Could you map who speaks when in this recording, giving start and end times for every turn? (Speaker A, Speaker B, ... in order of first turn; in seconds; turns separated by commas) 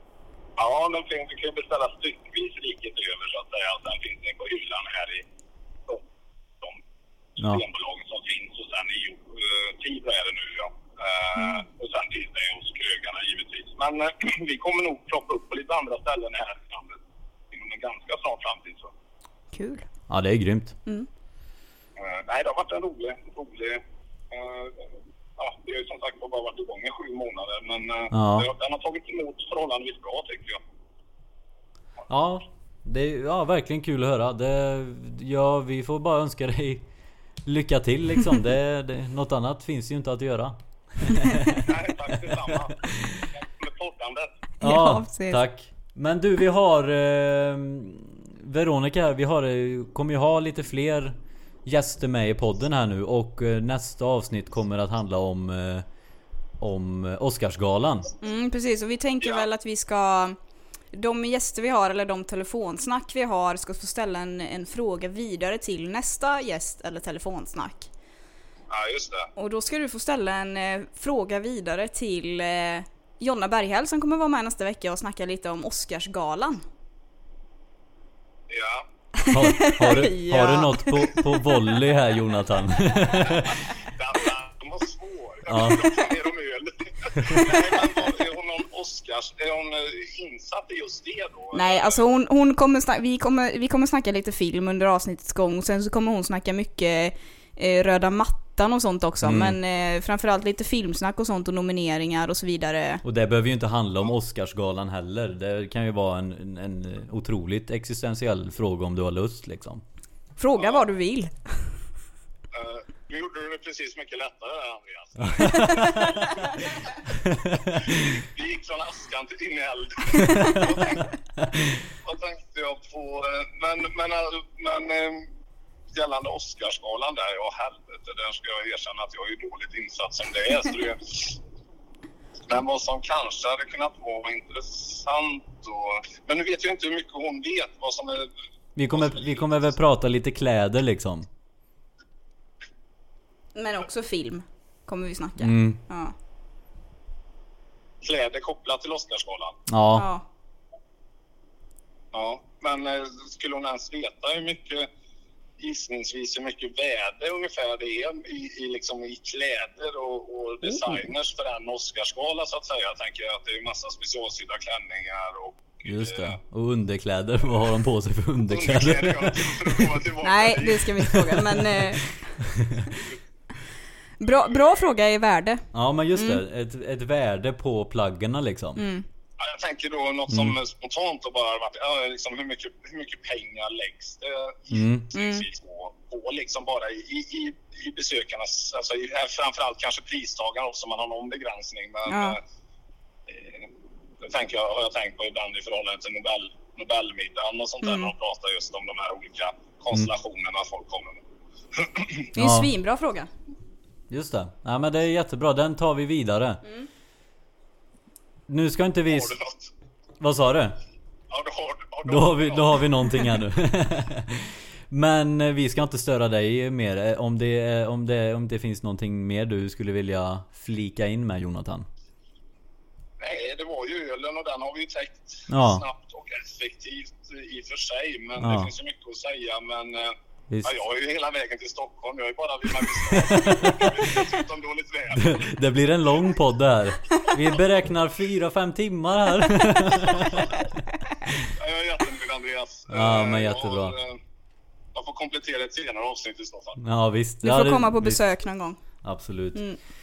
Speaker A: 0.6-5.2, Speaker B: 7.4-7.6, Speaker A: 7.4-17.0, Speaker A: 17.5-18.9, Speaker C: 19.5-19.9, Speaker B: 20.1-20.8, Speaker A: 22.0-24.8, Speaker A: 25.4-30.6, Speaker B: 28.1-28.5, Speaker B: 32.1-36.9, Speaker B: 37.4-43.3, Speaker A: 41.5-44.3, Speaker C: 44.6-45.4, Speaker B: 44.6-55.8, Speaker B: 56.6-58.1, Speaker C: 58.2-60.4, Speaker C: 60.9-67.9, Speaker A: 68.7-69.3, Speaker C: 69.3-76.6, Speaker A: 78.5-78.8, Speaker C: 79.2-81.5, Speaker B: 79.3-83.6, Speaker A: 83.2-92.0, Speaker B: 85.5-86.0, Speaker B: 87.2-87.4, Speaker C: 91.5-103.0, Speaker B: 99.2-99.6, Speaker B: 103.0-109.8, Speaker C: 110.4-111.7, Speaker A: 110.6-110.8, Speaker A: 112.5-116.8, Speaker B: 115.2-116.1, Speaker C: 115.4-116.5, Speaker B: 117.2-118.0, Speaker A: 117.6-121.1, Speaker C: 120.3-120.6, Speaker A: 121.9-125.3, Speaker A: 125.9-131.4, Speaker A: 132.5-138.3, Speaker B: 138.8-141.3, Speaker A: 138.9-139.6, Speaker C: 143.5-146.1, Speaker B: 145.4-145.8, Speaker A: 148.0-149.6, Speaker B: 149.7-150.1, Speaker C: 149.9-150.2, Speaker A: 152.1-154.9, Speaker A: 155.6-166.3, Speaker C: 160.7-160.9, Speaker B: 165.8-170.0, Speaker A: 168.5-170.9, Speaker C: 170.2-172.3, Speaker B: 171.0-173.0, Speaker C: 174.2-176.4, Speaker B: 175.7-178.8, Speaker C: 178.8-179.0, Speaker A: 179.4-192.4, Speaker B: 180.3-180.6, Speaker B: 184.7-185.1, Speaker C: 185.1-185.4, Speaker C: 192.1-192.4, Speaker A: 193.3-193.7, Speaker A: 194.2-201.2, Speaker C: 197.8-198.1, Speaker A: 201.7-202.3, Speaker B: 202.3-202.7, Speaker C: 202.3-203.3, Speaker B: 204.1-206.6, Speaker B: 208.5-209.3, Speaker A: 209.1-209.7, Speaker B: 210.2-210.8, Speaker A: 211.3-212.8, Speaker B: 212.1-221.9, Speaker A: 223.2-235.5, Speaker B: 225.5-225.8, Speaker B: 228.4-228.7, Speaker B: 232.8-234.3, Speaker B: 235.1-240.5, Speaker A: 241.4-244.2, Speaker B: 242.9-243.9, Speaker A: 244.9-246.8, Speaker B: 246.8-248.2, Speaker C: 247.4-248.8, Speaker B: 249.0-249.6